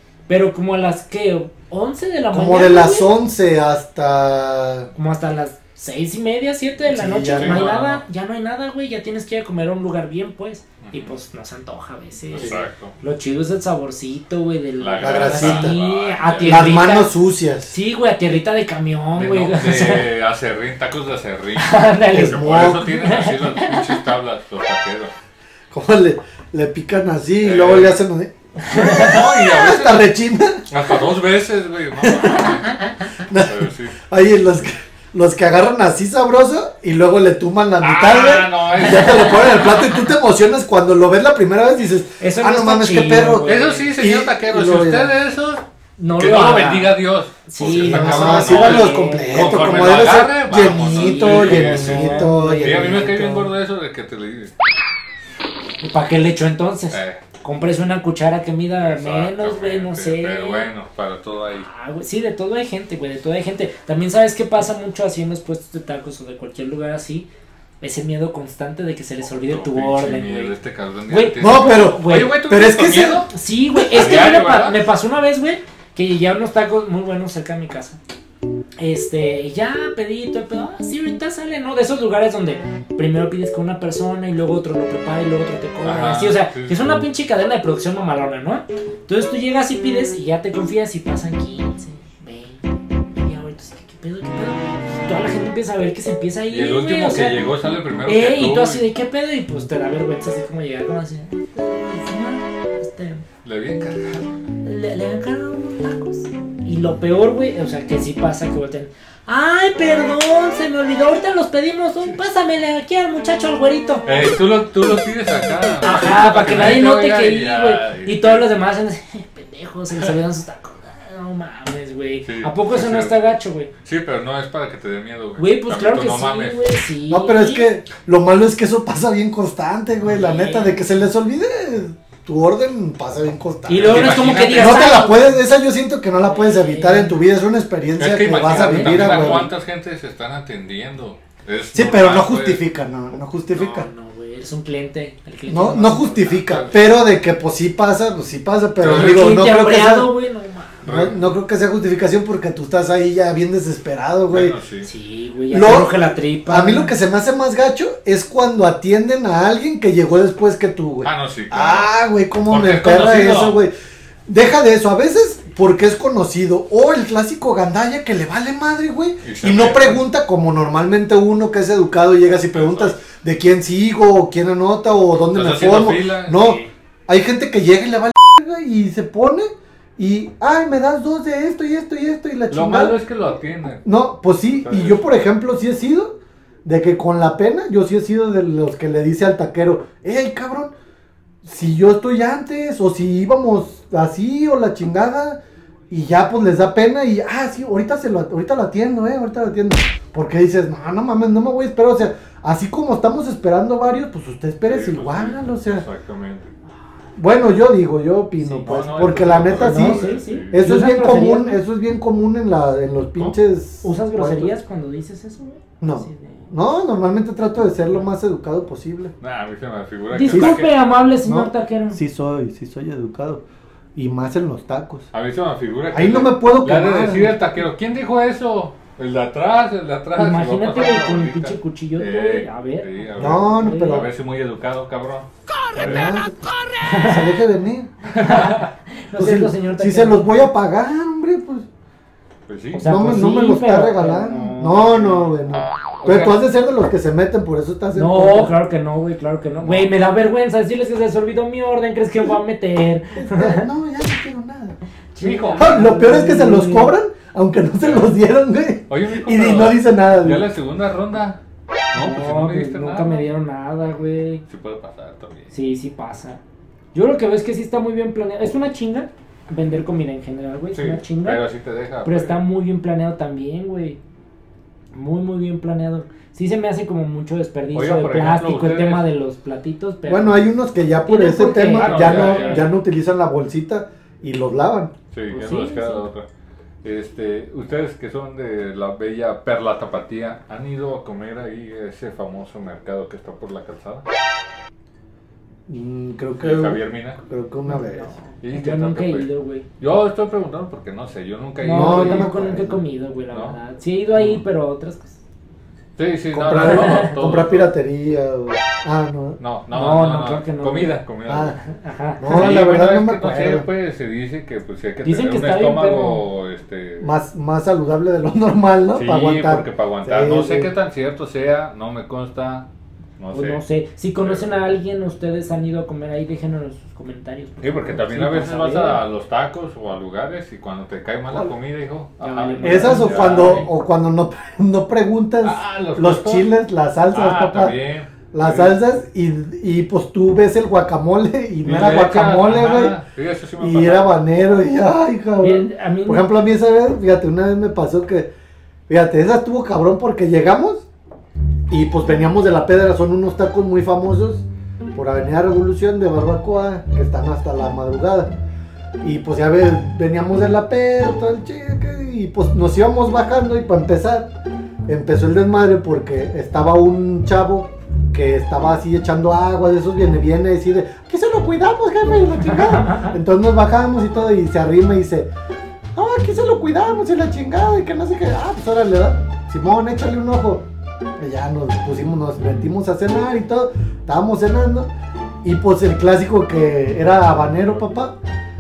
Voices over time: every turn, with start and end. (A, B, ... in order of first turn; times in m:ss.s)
0:00.3-0:03.2 A
0:02.3-0:04.9 B
0:05.0-0:17.1 A
0:06.9-0:07.6 B
0:07.3-0:08.0 C
0:10.8-0:11.2 C
0:12.3-0:13.0 C
0:12.4-0:12.6 B
0:14.8-0:16.8 C
0:15.0-0:15.8 B
0:16.4-0:17.8 B
0:17.7-0:20.1 A
0:19.1-0:25.1 C
0:21.6-0:24.0 A
0:22.1-0:22.9 B
0:25.7-0:30.8 B
0:27.4-0:28.0 C
0:28.7-0:29.2 A
0:28.8-0:30.1 C
0:30.7-0:32.8 C
0:32.1-0:32.6 A
0:33.2-0:45.1 B
0:33.4-0:34.0 C
0:37.8-0:40.1 C
0:42.2-0:43.9 A
0:43.4-0:45.6 C
0:46.0-0:53.2 A
0:46.2-0:54.5 C
0:47.7-0:53.5 B
0:55.8-1:00.7 A
0:56.9-0:57.2 C
0:58.8-1:01.7 C
1:01.5-1:07.3 A
1:07.8-1:10.6 A
1:09.2-1:13.3 C
1:11.1-1:12.5 A
1:11.4-1:13.3 B
1:13.3-1:18.0 A
1:13.9-1:14.8 C
1:18.8-1:32.6 A
1:25.8-1:27.1 C
1:33.2-1:43.2 A
1:36.5-1:38.8 C
1:43.4-1:44.4 C
1:44.6-1:54.1 A
1:54.1-1:58.6 C
1:55.8-2:03.7 A
2:02.2-2:03.2 C
2:03.8-2:06.7 C
2:05.4-2:07.7 A
2:07.1-2:19.5 B
2:10.0-2:10.9 A
2:13.7-2:15.4 A
2:13.8-2:14.9 C
2:16.2-2:17.2 A
2:18.0-2:22.6 C
2:18.3-2:19.5 A
2:21.7-2:23.9 B
2:23.5-2:26.4 A
2:25.5-2:30.1 B
2:26.2-2:26.9 C
2:28.8-2:29.4 C
2:28.9-2:30.8 A
2:30.8-2:31.4 C
2:30.9-2:34.6 B
2:34.3-2:34.9 C
2:34.8-2:37.0 A
2:35.5-2:43.7 B
2:41.0-2:41.9 C
2:42.5-2:43.6 C
2:44.3-3:03.0 B
2:49.2-2:50.0 C
2:52.5-2:53.0 C
2:55.3-2:56.7 C
3:02.5-3:03.8 C
3:03.8-3:10.7 B
3:04.6-3:05.1 C
3:11.4-3:25.8 B
3:24.7-3:26.5 C
3:27.2-3:34.5 B
3:28.4-3:30.7 C
3:29.5-3:31.6 A
3:33.8-3:36.4 A
3:35.8-3:39.1 B
3:39.2-3:40.7 C
3:40.1-3:42.0 A
3:40.3-3:40.6 B
3:41.2-3:43.4 B
3:44.0-3:45.1 B
3:45.1-3:56.1 C
3:45.9-3:47.4 B
3:50.1-3:54.0 A
3:53.2-3:54.1 B
3:55.7-3:57.9 B
3:56.8-3:57.3 A
3:58.1-3:58.7 C
3:58.2-4:00.4 A
3:59.2-4:01.7 B
4:02.5-4:02.9 C
4:02.7-4:05.4 A
4:02.8-4:08.5 B
4:06.0-4:06.4 C
4:08.0-4:13.7 A
4:09.6-4:09.9 B
4:13.2-4:14.8 B
4:15.2-4:17.0 A
4:15.2-4:16.0 C
4:15.6-4:20.5 B
4:17.8-4:18.2 C
4:18.9-4:21.4 C
4:21.9-4:23.3 C
4:22.0-4:24.4 A
4:24.5-4:25.5 C
4:25.5-4:26.4 A
4:26.9-4:31.4 A
4:30.7-4:32.4 C
4:32.0-4:34.0 A
4:34.9-4:40.5 A
4:37.7-4:39.1 C
4:40.1-4:44.9 B
4:41.0-4:42.7 A
4:41.7-4:42.7 C
4:45.1-4:46.3 C
4:45.3-4:46.0 A
4:46.8-4:54.0 C
4:55.7-4:58.1 B
4:56.4-4:57.2 C
4:57.7-4:59.7 A
4:58.4-4:59.3 C
4:59.8-5:02.4 C
5:01.6-5:05.2 A
5:01.7-5:02.8 B
5:03.3-5:03.6 C
5:04.2-5:04.4 C
5:06.0-5:07.7 C
5:06.3-5:09.4 B
5:09.4-5:11.6 C
5:09.7-5:11.0 A
5:11.3-5:11.6 B
5:11.6-5:12.6 A
5:12.2-5:13.7 B
5:12.3-5:17.1 C
5:15.0-5:16.3 A
5:17.0-5:20.7 B
5:18.9-5:22.7 C
5:23.2-5:23.6 C
5:23.3-5:29.0 A
5:24.2-5:24.7 C
5:27.6-5:33.7 C
5:32.2-5:33.7 A
5:32.6-5:37.8 B
5:35.4-5:36.5 C
5:37.1-5:38.8 C
5:38.3-5:43.0 B
5:41.6-5:44.2 C
5:43.6-5:48.3 B
5:45.4-5:46.3 A
5:48.9-5:50.8 B
5:51.7-5:58.3 B
5:59.0-6:04.3 B
6:04.9-6:15.3 B
6:12.4-6:13.2 A
6:16.0-6:20.6 B
6:21.2-6:24.9 B
6:25.4-6:28.1 B